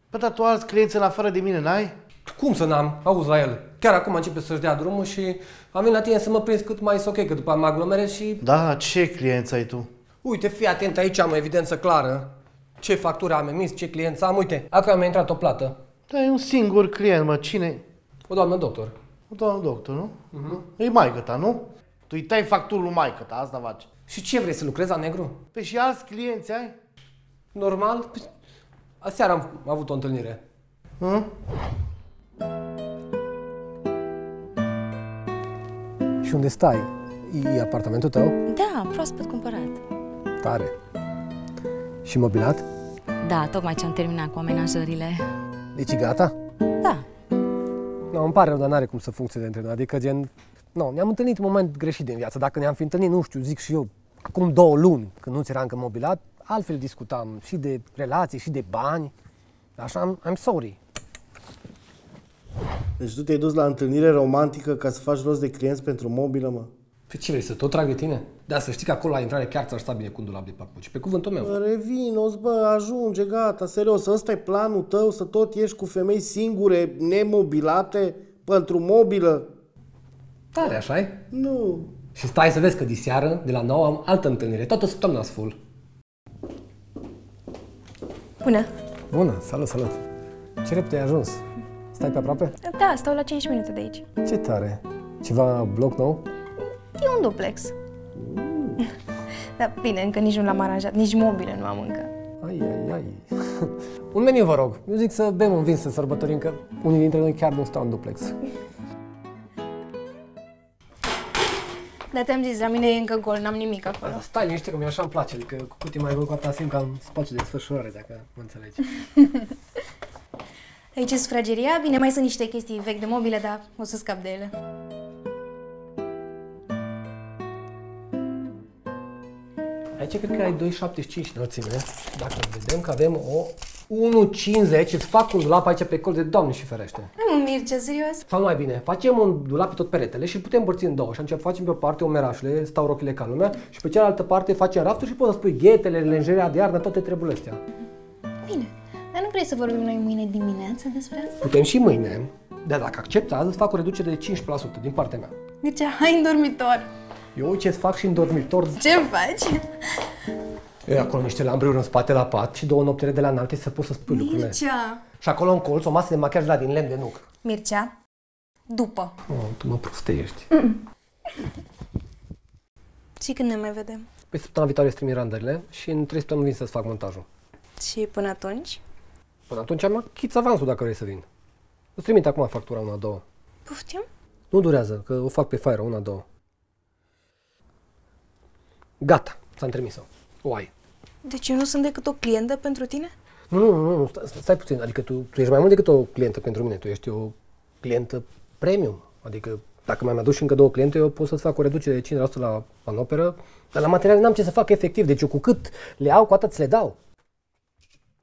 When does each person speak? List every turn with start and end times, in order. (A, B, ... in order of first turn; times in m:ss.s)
0:00.1-0:01.9 A
0:02.3-0:08.4 B
0:08.4-0:09.9 A
0:10.2-0:12.3 B
0:12.8-0:15.8 B
0:16.1-0:17.8 A
0:18.3-0:18.9 B
0:19.3-0:23.9 A
0:20.3-0:20.6 B
0:24.1-0:25.4 B
0:25.5-0:26.7 A
0:27.5-0:28.3 B
0:29.0-0:30.4 B
0:31.0-0:31.3 A
0:36.2-0:38.4 B
0:38.6-0:39.8 C
0:40.4-0:40.7 B
0:42.0-0:42.6 B
0:43.2-0:45.2 C
0:45.8-0:46.3 B
0:48.1-0:59.1 B
0:59.8-1:00.8 B
1:03.0-1:06.7 A
1:07.1-1:11.6 B
1:11.4-1:19.5 A
1:20.5-1:21.2 B
1:21.3-1:21.9 A
1:22.1-1:25.6 B
1:28.4-1:28.7 D
1:29.1-1:30.0 B
1:30.6-1:32.6 B
1:32.6-1:34.0 D
1:34.2-1:36.2 B
1:37.0-1:37.7 D
1:38.2-1:38.8 B
1:39.6-1:42.1 D
1:42.4-1:48.4 B
1:52.1-1:54.2 D
1:54.0-1:59.0 B
2:01.0-2:04.5 D
2:10.0-2:17.1 B
2:17.2-2:18.2 D
2:18.3-2:27.6 B
2:28.4-2:31.4 D
2:31.4-2:35.3 B
2:35.6-2:36.9 D
2:37.3-2:38.8 B
2:38.8-2:40.0 D
2:40.9-2:44.6 B
2:44.1-2:45.0 D
2:45.2-2:47.3 B
2:47.4-2:47.9 D
2:48.7-2:49.1 D
2:49.3-2:50.5 B
2:53.2-2:54.1 D
2:54.3-2:57.2 B
2:57.8-2:58.8 D
2:59.5-3:01.3 B
3:02.0-3:03.2 B
3:03.7-3:04.0 D
3:04.5-3:06.2 B
3:09.0-3:10.7 B
3:11.2-3:13.1 D
3:13.5-3:27.0 B